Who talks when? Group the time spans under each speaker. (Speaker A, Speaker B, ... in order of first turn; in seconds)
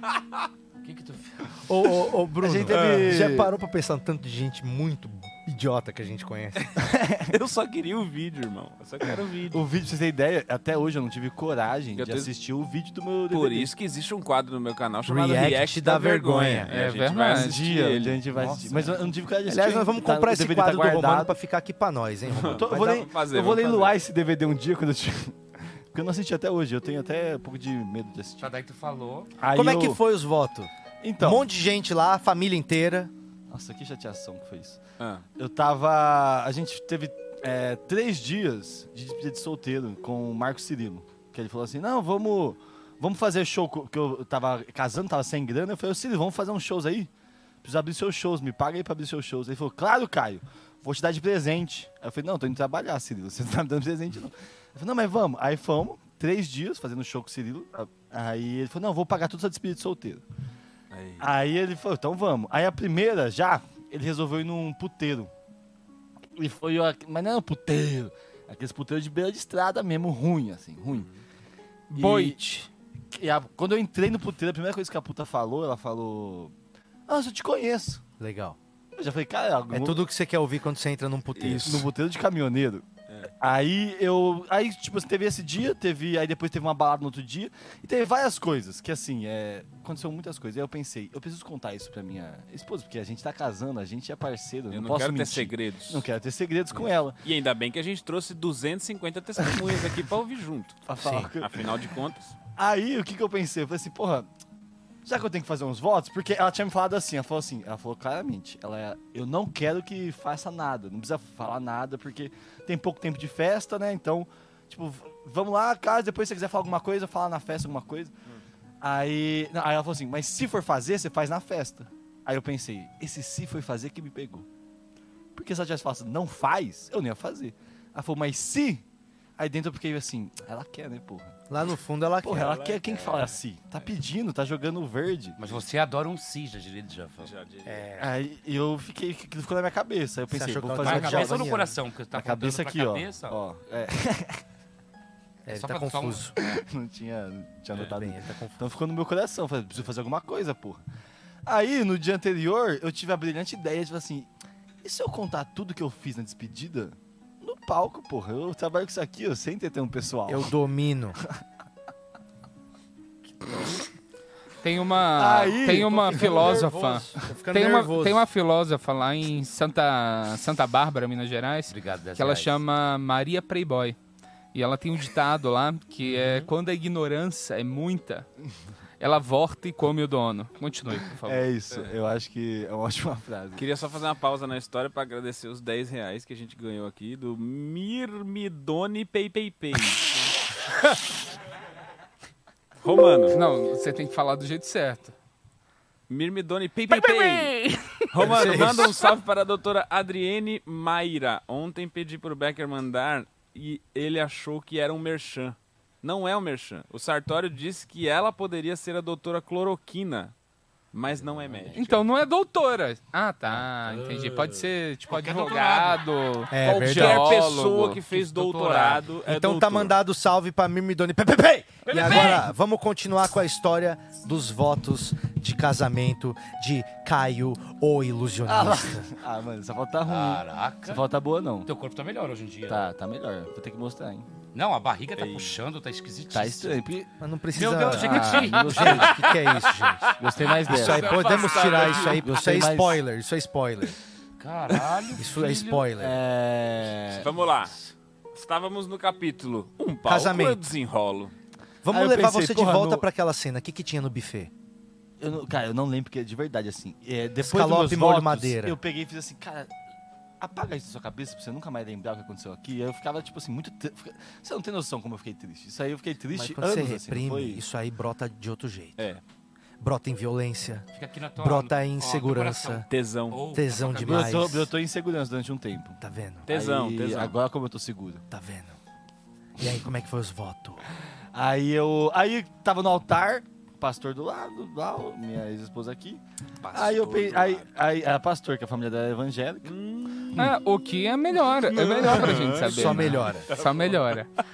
Speaker A: 0.8-1.4, 18.3-19.1, 28.4-29.3, 135.4-138.0, 140.8-143.4, 145.5-146.2, 171.7-172.6, 176.0-176.5, 213.9-214.6, 215.1-215.9, 218.1-219.0, 221.9-222.3, 230.1-231.0, 231.7-232.8, 234.5-236.8, 237.5-239.2, 244.4-245.9, 270.9-274.4
Speaker B: 1.7-6.8, 15.1-16.7, 19.4-23.1, 29.5-33.1, 78.2-78.6, 79.7-81.9, 101.0-101.3, 131.5-132.6, 140.3-141.7, 145.4-146.3, 147.8-148.6, 160.3-161.2, 166.2-168.2, 198.2-198.9, 216.5-217.4, 219.2-229.1, 237.2-240.1, 240.7-243.9, 245.2-246.2, 250.0-250.6, 251.8-254.5, 257.4-258.8, 266.3-269.1, 269.8-270.9, 271.4-272.8, 273.5-274.7, 276.0-276.4, 278.3-278.8, 279.6-280.8, 292.6-293.5
Speaker C: 2.4-3.5, 6.8-7.3, 9.5-13.7, 17.3-21.3, 22.5-28.5, 29.4-30.0, 31.0-31.4, 33.5-34.8, 35.4-47.1, 47.6-60.2, 61.2-65.3, 66.3-71.1, 71.9-72.4, 73.1-76.5, 77.1-78.0, 79.0-80.0, 81.4-82.8, 83.4-97.2, 100.9-101.7, 102.6-104.3, 105.0-118.1, 118.8-124.4, 125.3-128.8, 129.4-131.3, 132.2-135.4, 138.0-141.6, 142.1-144.4, 146.4-150.8, 151.4-154.3, 154.8-160.5, 165.2-166.8, 181.2-183.6, 228.4-231.7, 232.7-234.3, 236.3-237.1, 238.0-239.2, 240.2-243.0, 246.0-247.3, 251.9-253.0, 255.2-259.7, 260.4-267.6, 274.0-278.2, 281.3-286.2, 286.7-289.7
Speaker D: 2.7-3.1, 7.3-9.6, 11.9-12.3, 13.3-18.2, 22.3-24.0, 35.0-35.2, 60.9-61.2, 70.9-71.2, 94.7-96.0, 96.7-100.8, 101.4-102.3, 132.3-133.9, 137.2-137.8, 183.6-190.1, 192.8-193.3, 196.1-197.5, 198.1-210.3, 210.9-212.0, 215.1-216.0, 216.9-219.9, 221.9-222.4, 235.2-235.5, 240.8-242.2, 247.2-247.7, 248.3-251.3, 272.9-273.4, 276.5-277.3, 286.6-287.7, 289.6-290.4, 291.6-294.2
Speaker E: 16.7-17.7, 71.9-72.7, 164.6-173.9, 174.5-178.2, 179.0-181.5, 193.3-195.1, 196.9-199.1, 211.7-218.0, 290.4-294.3